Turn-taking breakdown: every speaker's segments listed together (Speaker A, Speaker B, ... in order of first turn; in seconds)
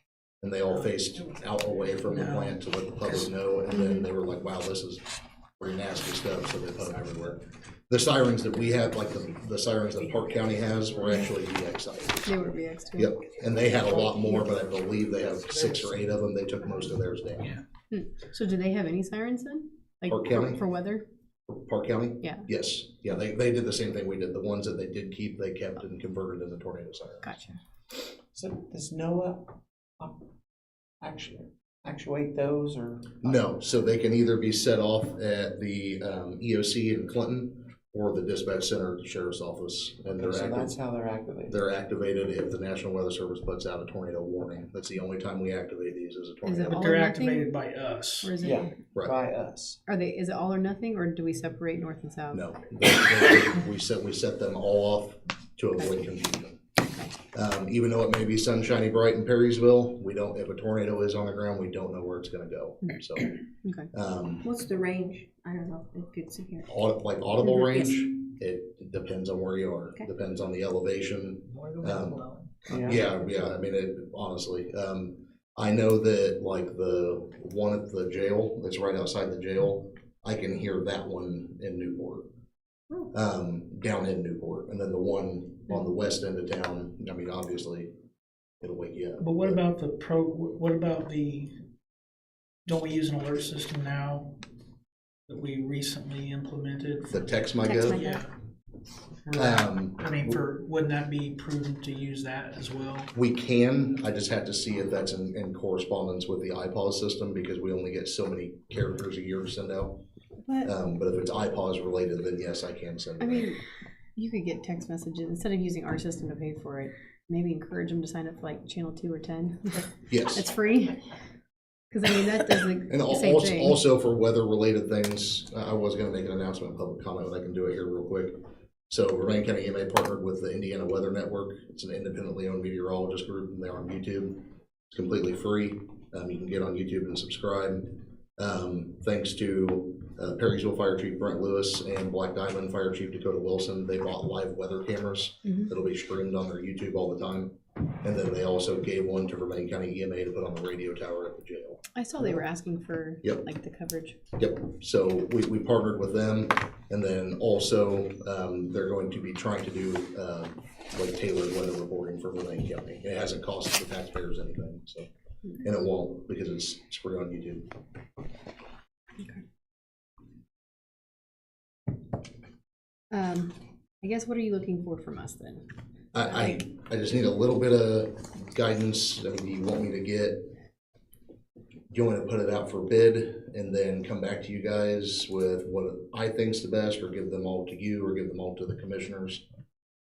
Speaker A: 0.4-5.0, 5.6-12.3, 12.9-17.5, 20.1-20.6, 21.5-27.3, 33.2-40.8, 41.5-46.8, 52.3-56.6, 57.3-63.3, 63.9-64.5, 66.7-82.3, 83.1-87.9, 88.6-89.6, 97.1-98.0, 99.3-100.4, 103.1-110.0, 110.6-113.5, 120.1-120.5, 122.9-147.5, 148.0-151.8, 154.4-165.1, 165.6-167.7, 176.1-180.5, 181.9-189.4
Speaker B: 2.0-3.3, 46.7-48.3, 71.5-73.0, 89.2-91.6, 92.7-94.4, 95.3-98.3, 99.3-103.1
Speaker C: 3.7-4.1, 12.2-13.2, 17.9-21.1, 27.2-27.6, 46.4-47.5, 48.2-48.7, 49.9-52.5, 63.6-63.9, 110.5-110.7, 113.2-113.6, 114.2-121.0, 121.9-123.8, 151.9-154.2, 173.1-175.7, 176.2-176.6
Speaker D: 28.3-30.2, 31.0-33.4, 40.1-41.6, 48.4-49.8, 72.7-73.0
Speaker E: 64.4-66.7, 97.6-98.2